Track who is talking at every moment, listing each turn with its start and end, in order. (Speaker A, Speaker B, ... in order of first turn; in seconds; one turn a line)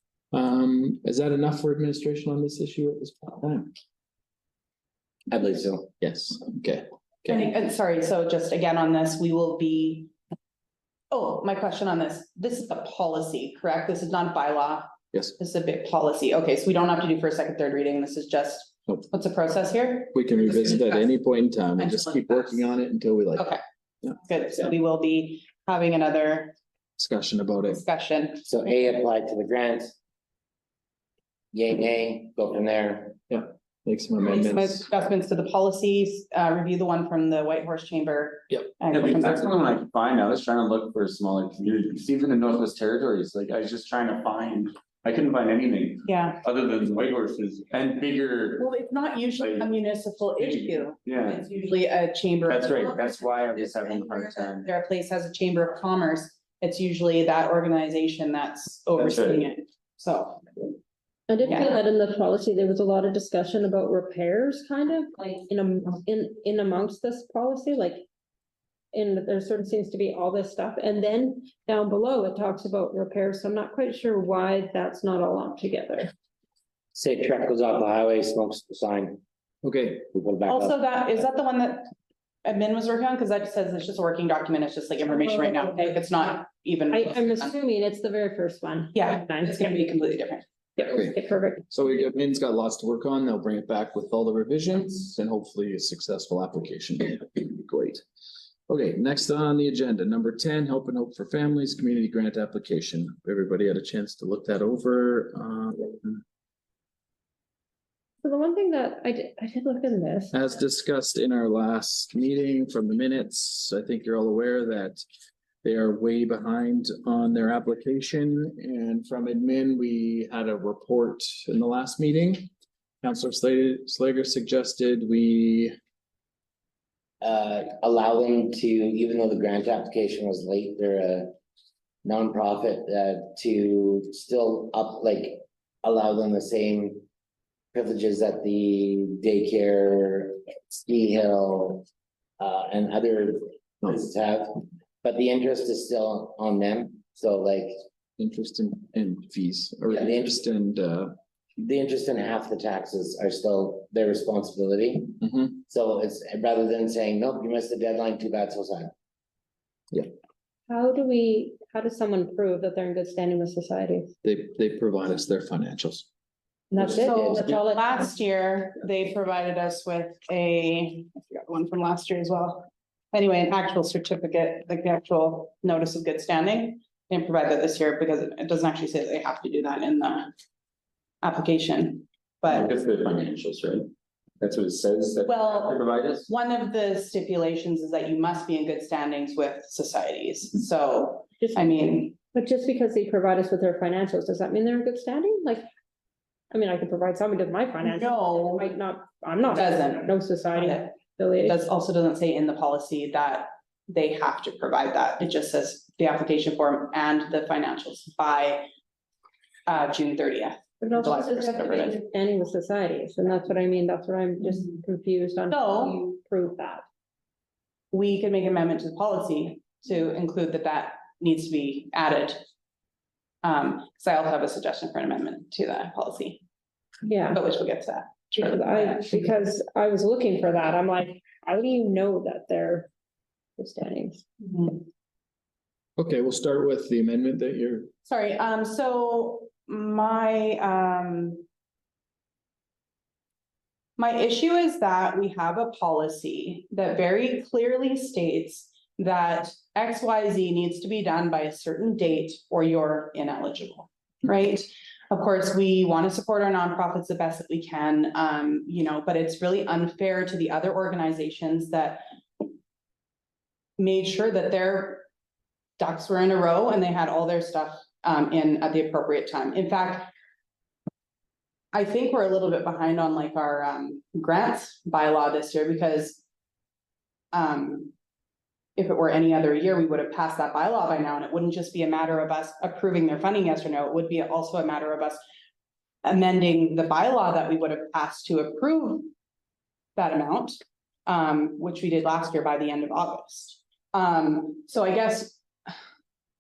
Speaker A: 0.3-3.7
Speaker B: 5.3-5.9
Speaker A: 6.0-7.5
Speaker C: 7.3-10.1
Speaker C: 11.1-21.1
Speaker A: 20.1-24.2
Speaker C: 21.8-22.6
Speaker C: 24.2-26.6
Speaker A: 27.0-27.9
Speaker C: 27.7-28.4
Speaker B: 28.5-29.9
Speaker B: 31.5-33.2
Speaker A: 33.3-34.9
Speaker C: 34.2-39.5
Speaker D: 38.9-48.7
Speaker C: 46.1-46.4
Speaker C: 48.6-60.4
Speaker D: 49.4-49.7
Speaker D: 50.4-51.5
Speaker D: 52.5-54.7
Speaker D: 59.0-59.5
Speaker E: 61.3-68.1
Speaker C: 61.5-61.7
Speaker E: 68.9-76.1
Speaker B: 76.9-79.2
Speaker A: 79.6-80.0
Speaker B: 80.1-80.8
Speaker C: 80.5-81.9
Speaker C: 82.5-87.5
Speaker E: 86.9-89.9
Speaker C: 89.0-90.4
Speaker E: 90.8-91.7
Speaker A: 90.9-91.2
Speaker A: 91.7-98.0
Speaker A: 98.7-106.2
Speaker E: 108.2-110.4
Speaker A: 110.3-115.0
Speaker A: 115.6-122.5
Speaker A: 123.0-125.8
Speaker B: 127.2-131.3
Speaker B: 132.0-137.0
Speaker B: 137.7-141.9
Speaker B: 142.4-147.7
Speaker A: 148.2-151.1
Speaker B: 150.0-150.4
Speaker B: 151.6-158.9
Speaker A: 155.2-155.6
Speaker E: 160.7-164.1
Speaker A: 164.2-166.1
Speaker E: 166.7-168.1
Speaker C: 166.8-180.3
Speaker B: 166.8-167.4
Speaker C: 181.2-182.7
Speaker D: 182.5-186.3
Speaker C: 185.3-192.1
Speaker E: 191.4-195.7
Speaker E: 196.5-201.6
Speaker C: 197.8-198.7
Speaker C: 199.5-208.7
Speaker C: 209.7-212.0
Speaker E: 210.8-216.8
Speaker C: 215.5-216.0
Speaker C: 217.9-222.4
Speaker C: 223.4-226.4
Speaker E: 227.1-227.4
Speaker C: 227.3-229.0
Speaker E: 228.3-232.9
Speaker E: 233.6-234.2
Speaker C: 234.4-234.8
Speaker A: 236.0-237.9
Speaker C: 238.1-241.4
Speaker C: 244.0-262.0
Speaker C: 263.8-265.1
Speaker C: 265.8-270.1
Speaker C: 271.7-276.2
Speaker C: 277.3-277.9
Speaker C: 278.8-285.2
Speaker C: 286.0-289.1
Speaker C: 290.0-295.4